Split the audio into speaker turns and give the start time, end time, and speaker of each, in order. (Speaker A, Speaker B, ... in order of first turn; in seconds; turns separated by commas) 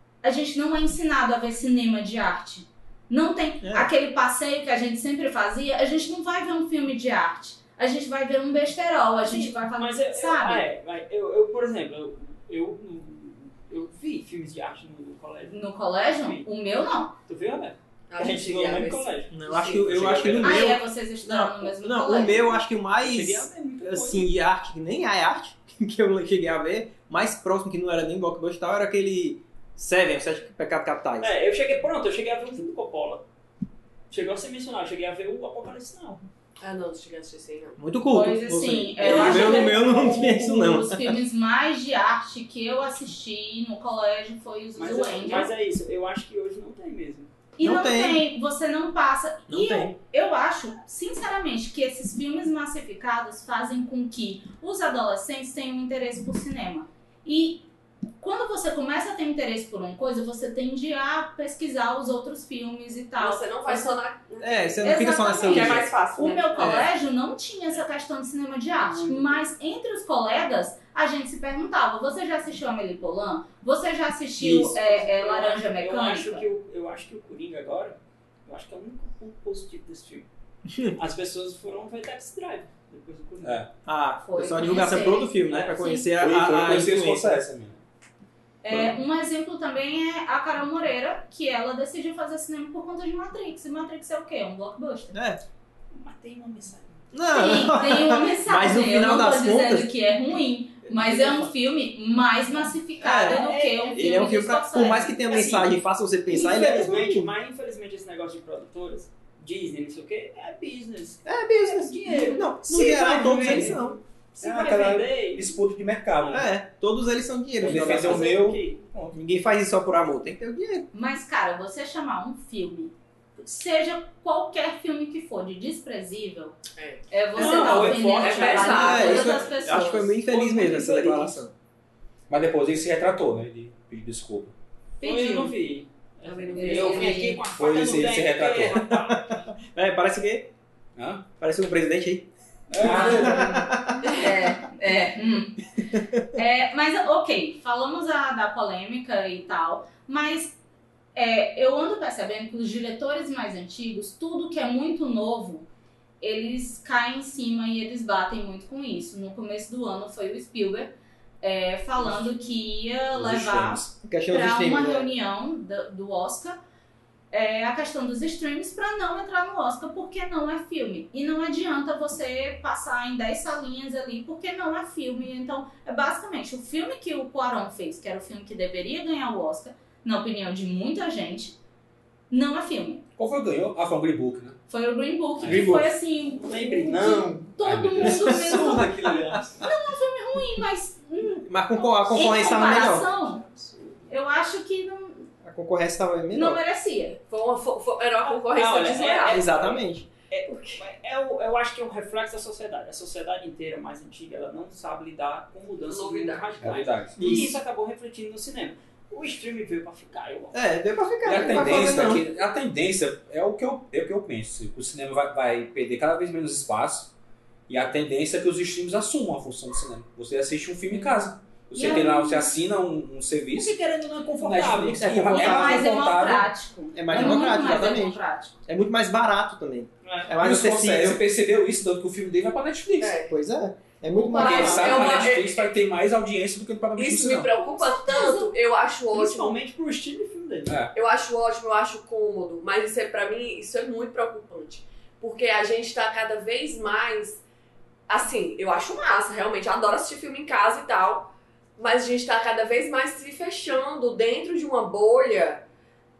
Speaker A: 0.2-10.7, Speaker B: 3.6-3.9, Speaker C: 9.2-16.5, Speaker A: 15.5-17.1, Speaker C: 17.3-19.4, Speaker D: 18.1-19.9, Speaker B: 19.3-31.3, Speaker C: 19.9-20.4, Speaker E: 19.9-20.6, Speaker A: 20.4-22.6, Speaker C: 23.0-24.3, Speaker C: 31.2-33.2, Speaker C: 34.1-36.2, Speaker D: 36.6-37.8, Speaker B: 37.8-41.1, Speaker A: 38.1-45.5, Speaker C: 39.0-40.3, Speaker D: 39.1-39.6, Speaker C: 44.8-47.3, Speaker A: 47.6-57.6, Speaker B: 47.6-48.2, Speaker B: 49.5-49.9, Speaker A: 58.2-64.0, Speaker D: 63.2-66.7, Speaker B: 64.4-65.9, Speaker A: 64.8-76.4, Speaker B: 66.6-66.9, Speaker C: 68.8-69.4, Speaker C: 74.4-80.3, Speaker C: 80.8-83.6, Speaker E: 83.4-83.7, Speaker B: 83.8-87.4, Speaker A: 84.2-86.1, Speaker C: 85.5-85.8, Speaker E: 86.2-87.8, Speaker A: 88.6-95.1, Speaker B: 95.1-95.4, Speaker C: 95.9-97.0, Speaker B: 97.1-99.9, Speaker A: 97.3-105.2, Speaker B: 103.0-107.3, Speaker C: 103.1-104.1, Speaker C: 105.2-115.5, Speaker B: 111.2-114.0, Speaker A: 112.1-112.4, Speaker E: 114.4-116.5, Speaker C: 116.2-116.5, Speaker B: 116.3-118.3, Speaker E: 117.6-119.2, Speaker C: 117.6-118.8, Speaker B: 119.1-120.9, Speaker A: 120.9-126.6, Speaker D: 126.8-129.5, Speaker A: 127.1-130.1, Speaker C: 127.3-129.5, Speaker B: 128.7-131.5, Speaker C: 130.2-131.4, Speaker E: 132.3-134.5, Speaker A: 135.0-135.5, Speaker C: 135.0-139.4, Speaker D: 136.2-137.4, Speaker A: 136.5-137.4, Speaker E: 137.5-138.8, Speaker B: 138.9-140.5, Speaker E: 140.9-141.2, Speaker B: 141.4-144.1, Speaker E: 142.7-143.4, Speaker A: 142.8-145.6, Speaker D: 144.0-144.3, Speaker A: 146.3-150.6, Speaker A: 151.1-155.7, Speaker A: 156.2-166.6, Speaker E: 163.1-163.9, Speaker B: 164.0-165.1, Speaker A: 167.3-181.6, Speaker A: 182.3-183.0, Speaker E: 183.2-184.6, Speaker A: 184.7-188.9, Speaker E: 185.4-185.9, Speaker C: 185.4-187.5, Speaker E: 187.6-188.5, Speaker C: 188.0-189.7, Speaker B: 188.1-189.4, Speaker A: 189.6-193.4, Speaker B: 191.5-193.1, Speaker C: 191.8-194.1, Speaker A: 194.1-195.3, Speaker B: 195.4-196.6, Speaker A: 196.3-197.2, Speaker D: 197.3-199.5, Speaker C: 198.2-210.6, Speaker B: 199.2-200.1, Speaker D: 200.4-200.8, Speaker D: 205.9-206.5, Speaker E: 206.6-207.4, Speaker B: 207.2-207.5, Speaker B: 210.5-212.2, Speaker E: 211.2-217.1, Speaker C: 211.3-211.8, Speaker E: 217.7-223.8, Speaker A: 221.7-222.5, Speaker C: 223.5-225.5, Speaker E: 224.4-226.5, Speaker B: 224.9-225.9, Speaker A: 225.3-228.6, Speaker B: 226.9-231.2, Speaker C: 230.0-230.3, Speaker E: 230.4-233.2, Speaker D: 233.0-233.3, Speaker B: 233.3-234.9, Speaker D: 234.3-235.7, Speaker E: 234.3-237.5, Speaker C: 234.4-235.2, Speaker D: 237.0-239.6, Speaker A: 237.6-238.5, Speaker C: 239.1-240.8, Speaker E: 240.7-240.9, Speaker D: 240.9-247.4, Speaker D: 248.1-255.6